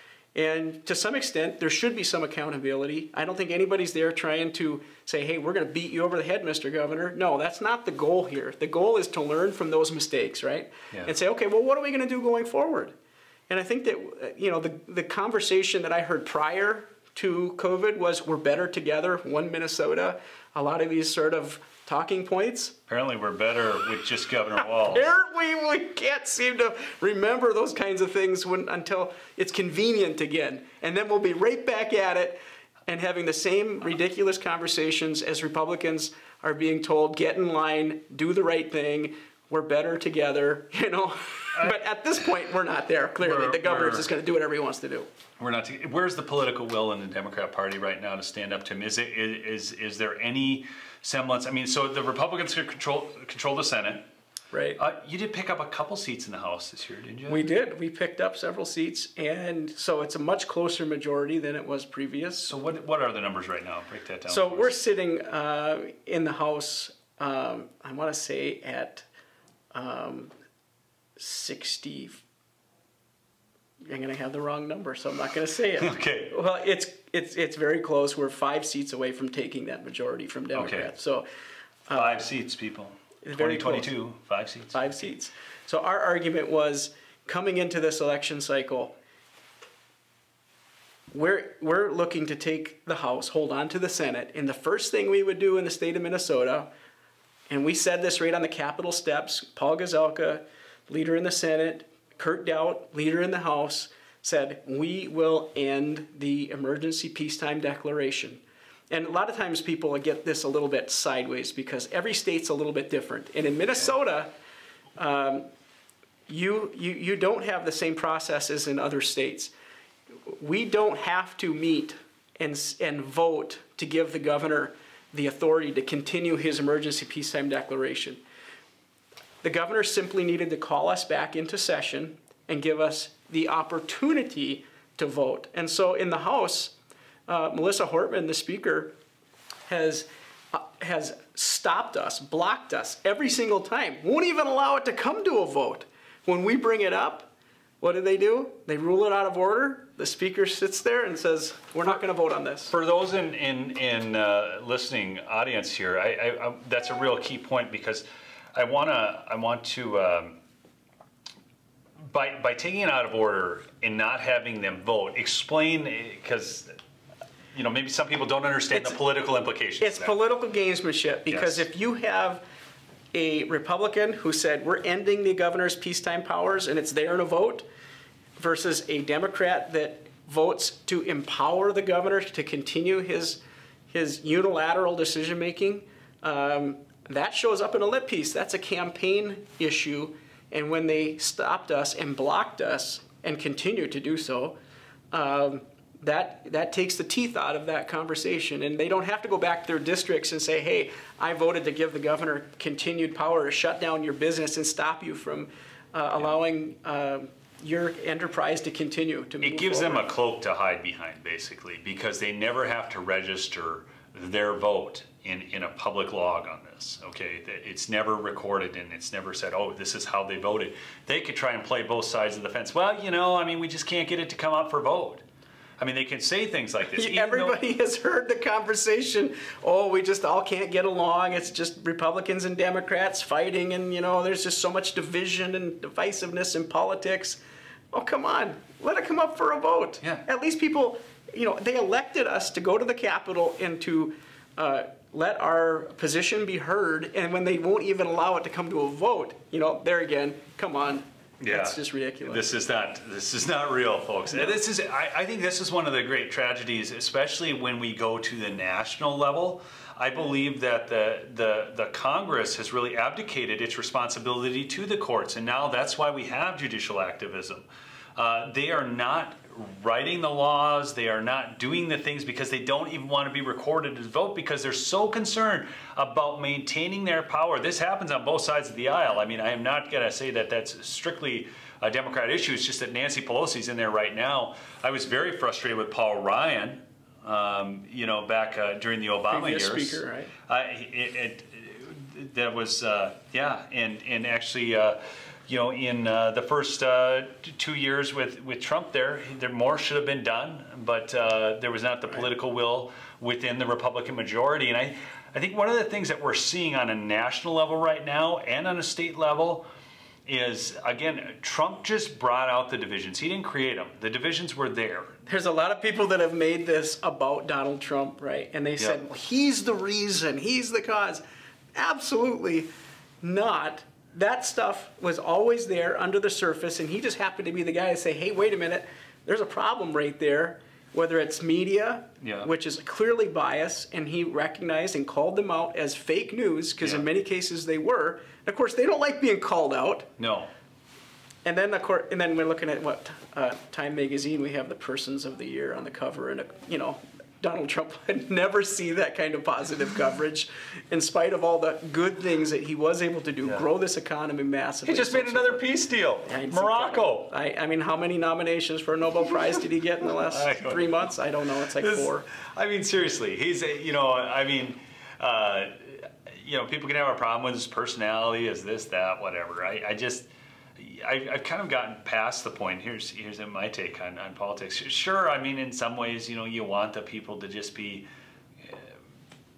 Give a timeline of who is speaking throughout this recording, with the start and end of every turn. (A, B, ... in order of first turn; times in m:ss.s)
0:00.3-0:12.9 A
0:13.5-0:22.8 A
0:22.9-0:25.1 B
0:24.6-0:45.1 A
0:43.2-0:44.1 B
0:45.4-0:54.0 B
0:54.5-0:54.8 A
0:54.8-0:57.4 B
0:57.3-1:02.5 A
1:02.5-1:04.7 B
1:04.3-1:09.1 A
1:09.7-1:10.3 A
1:11.2-1:12.2 A
1:13.8-1:21.2 A
1:15.8-1:16.3 B
1:20.5-1:20.9 B
1:21.9-1:22.3 A
1:21.9-1:25.0 B
1:23.2-1:23.9 A
1:24.7-1:28.9 A
1:31.1-1:36.7 A
1:37.5-1:54.3 A
1:55.0-1:55.5 A
1:56.3-1:59.5 A
2:00.3-2:08.2 A
2:09.4-2:16.7 A
2:17.3-2:18.9 A
2:19.7-2:27.3 A
2:27.8-2:32.7 A
2:32.7-2:40.4 B
2:42.1-2:46.8 B
2:47.5-2:50.2 B
2:48.7-2:49.0 A
2:49.8-2:52.4 A
2:51.3-2:51.6 B
2:53.1-2:57.6 A
2:58.4-3:14.6 A
3:15.1-3:30.1 A
3:29.4-3:45.2 B
3:45.8-3:47.6 B
3:46.9-3:57.4 A
3:57.9-4:12.4 A
4:11.4-5:09.7 B
4:14.3-4:14.6 A
4:49.3-4:50.3 A
5:10.2-5:15.1 B
5:15.2-5:21.2 A
5:21.7-5:22.7 A
5:23.2-5:40.1 A
5:32.2-5:32.5 B
5:36.8-5:37.0 B
5:40.2-5:40.5 B
5:41.4-5:55.6 A
5:54.8-5:57.3 B
5:56.2-6:02.3 A
6:00.3-6:00.9 B
6:01.8-6:18.1 B
6:18.6-6:18.9 B